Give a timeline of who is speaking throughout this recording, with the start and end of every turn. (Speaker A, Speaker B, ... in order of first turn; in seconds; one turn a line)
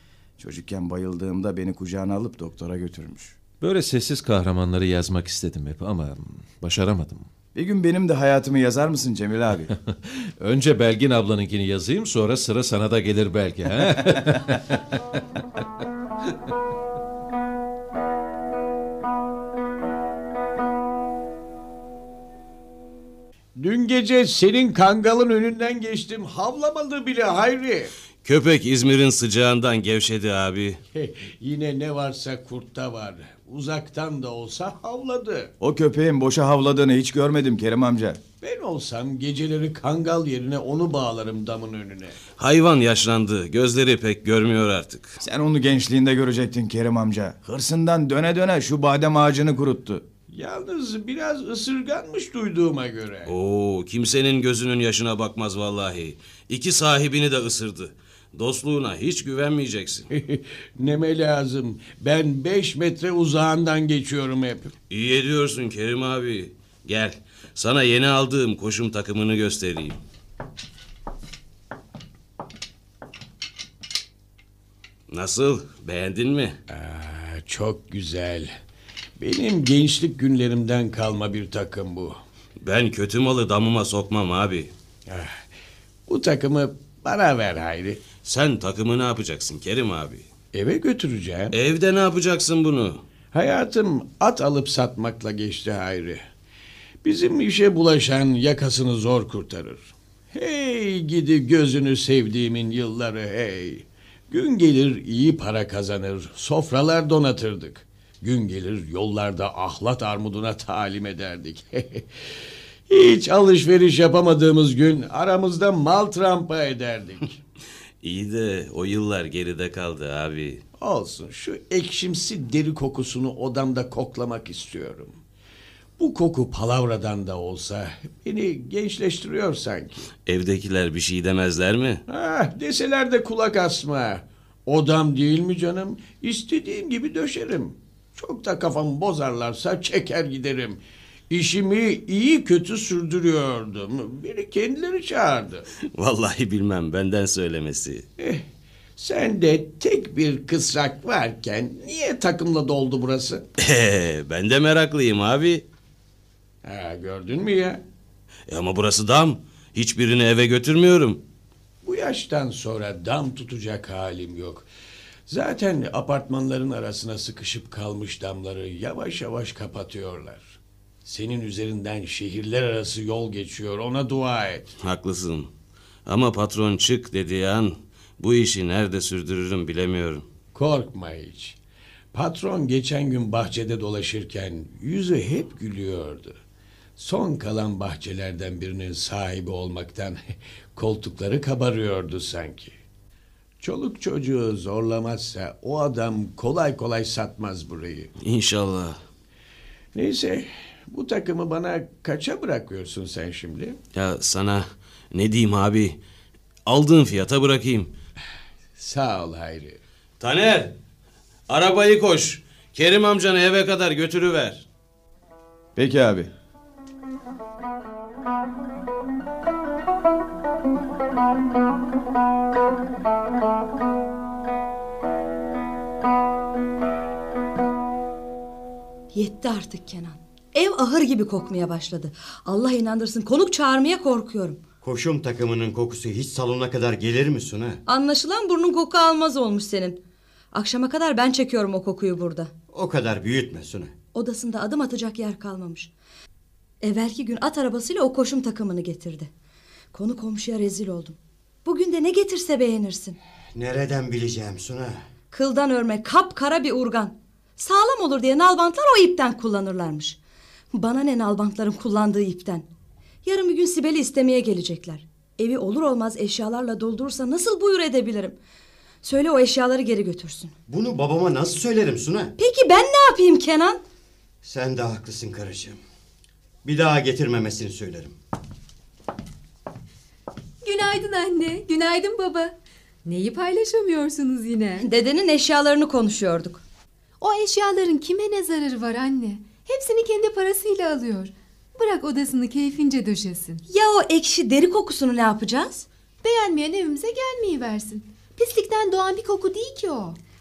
Speaker A: 0.4-3.4
Speaker B: 3.6-7.3
Speaker A: 7.5-9.7
Speaker B: 9.9-14.8
Speaker C: 23.6-27.9
Speaker D: 28.2-30.8
Speaker C: 30.9-35.5
Speaker A: 35.6-38.2
Speaker C: 38.4-42.2
Speaker D: 42.4-45.2
Speaker A: 45.2-50.0
Speaker C: 50.3-53.3
Speaker D: 53.3-60.1
Speaker C: 60.1-64.7
Speaker D: 64.9-70.0
Speaker D: 75.1-76.6
Speaker C: 76.7-78.5
Speaker C: 79.2-82.2
Speaker D: 82.6-84.7
Speaker C: 85.1-85.5
Speaker C: 86.1-88.0
Speaker D: 88.2-90.2
Speaker C: 90.5-91.5
Speaker D: 91.5-93.0
Speaker C: 93.3-96.2
Speaker C: 97.0-112.2
Speaker C: 112.9-117.4
Speaker D: 118.0-120.6
Speaker C: 120.8-125.2
Speaker C: 126.0-130.1
Speaker D: 130.2-132.0
Speaker C: 132.1-140.8
Speaker C: 141.3-145.7
Speaker D: 145.9-148.1
Speaker C: 148.2-148.4
Speaker C: 149.0-153.4
Speaker D: 153.6-155.6
Speaker C: 156.6-157.8
Speaker D: 158.5-161.2
Speaker C: 161.8-164.7
Speaker C: 165.3-174.7
Speaker D: 174.8-175.5
Speaker D: 176.1-180.2
Speaker C: 180.5-181.6
Speaker C: 182.1-186.4
Speaker C: 187.0-190.2
Speaker C: 190.7-192.8
Speaker C: 193.6-198.1
Speaker D: 198.2-199.0
Speaker C: 199.9-203.8
Speaker D: 203.9-206.0
Speaker D: 206.7-207.9
Speaker C: 208.8-209.8
Speaker D: 210.2-210.7
Speaker D: 211.5-214.6
Speaker A: 215.8-216.3
Speaker E: 229.1-234.6
Speaker F: 234.8-237.8
Speaker E: 237.8-240.0
Speaker E: 240.5-242.5
Speaker F: 242.7-243.9
Speaker E: 244.1-245.9
Speaker E: 246.8-249.3
Speaker E: 249.9-253.2
Speaker F: 253.5-255.0
Speaker E: 255.3-260.2
Speaker E: 260.7-262.6
Speaker E: 263.2-268.4
Speaker E: 269.0-270.5
Speaker F: 270.7-272.3
Speaker E: 272.4-273.8
Speaker F: 274.4-275.8
Speaker F: 276.6-278.1
Speaker G: 280.6-282.5
Speaker G: 283.0-284.9
Speaker E: 284.8-286.6
Speaker G: 287.2-293.6
Speaker E: 293.7-295.9
Speaker G: 296.2-300.2